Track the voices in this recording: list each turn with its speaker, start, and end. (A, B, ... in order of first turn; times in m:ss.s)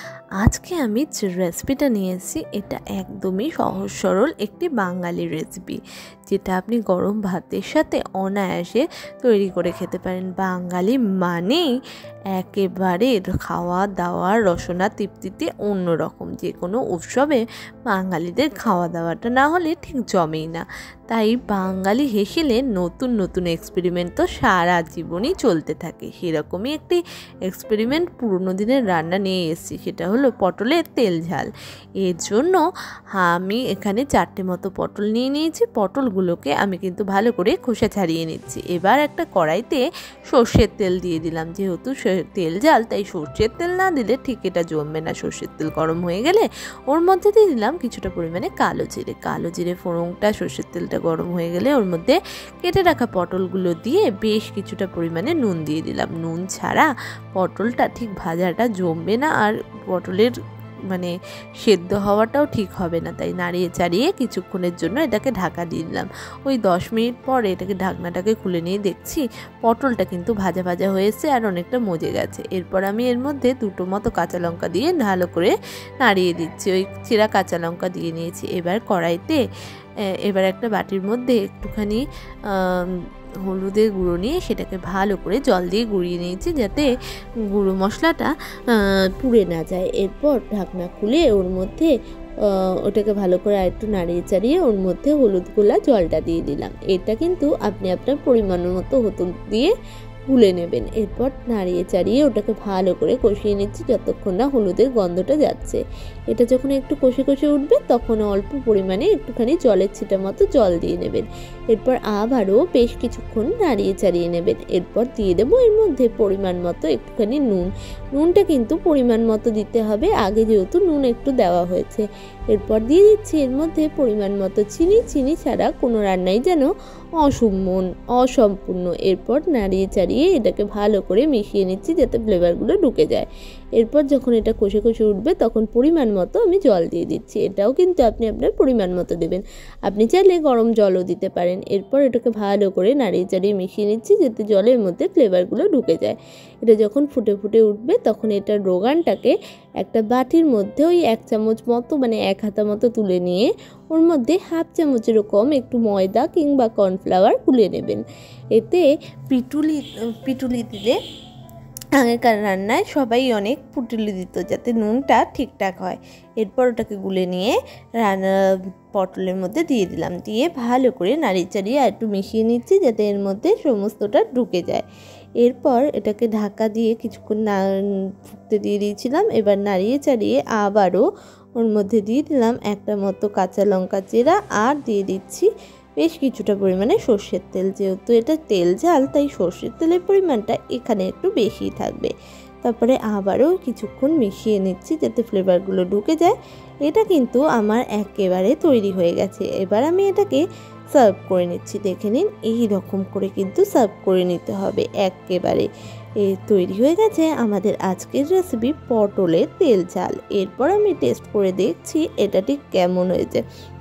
0:00.4-0:05.8 A
0:06.3-0:11.6 A
0:12.3-0:31.5 A
0:32.0-0:32.6 A
0:33.2-1:00.3 A
1:01.6-1:19.4 A
1:20.3-1:22.9 A
1:23.4-1:26.9 A
1:27.5-1:31.9 A
1:32.9-1:39.7 A
1:40.3-1:45.8 A
1:46.3-2:06.7 A
2:07.2-2:13.3 A
2:13.8-2:38.0 A
2:38.5-2:41.0 A
2:42.0-2:54.8 A
2:55.4-2:57.6 A
2:58.3-3:01.0 A
3:01.6-3:05.5 A
3:06.0-3:12.1 A
3:12.6-3:16.3 A
3:16.9-3:20.4 A
3:20.9-3:25.7 A
3:26.2-3:33.4 A